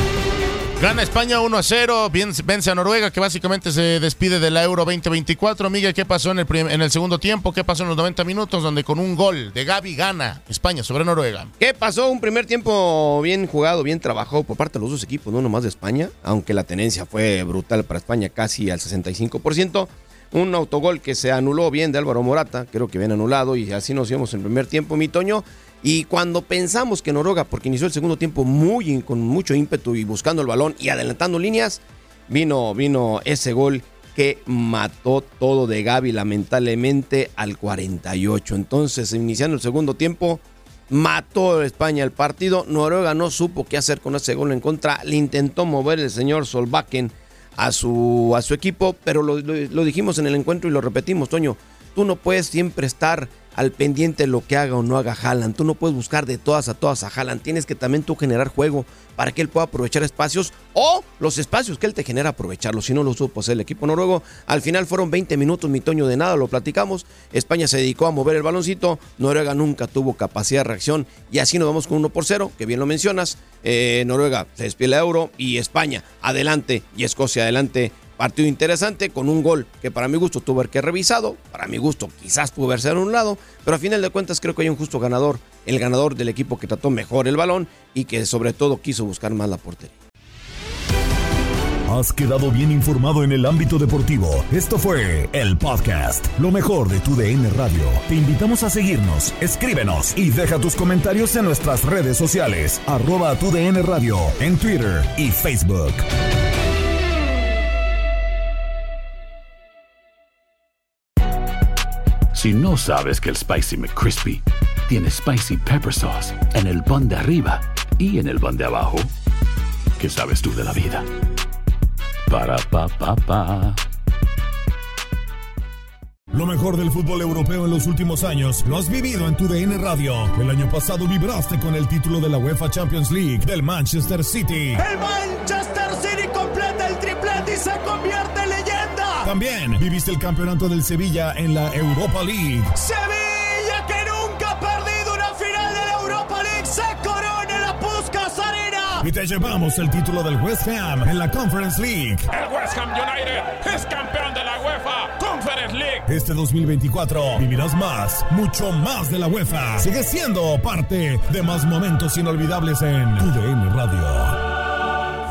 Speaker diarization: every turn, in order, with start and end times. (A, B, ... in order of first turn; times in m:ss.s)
0:00.8-0:11.5 A
0:11.6-1:29.9 B
1:31.9-1:46.0 C
1:52.3-1:59.1 D
2:00.0-2:01.1 D
2:02.3-2:03.8 D
2:06.3-2:14.8 C
2:14.8-2:19.3 E
2:19.2-2:22.8 C
2:22.8-2:29.0 E
2:29.0-2:32.3 C
2:32.3-2:36.0 F
2:36.1-2:44.4 C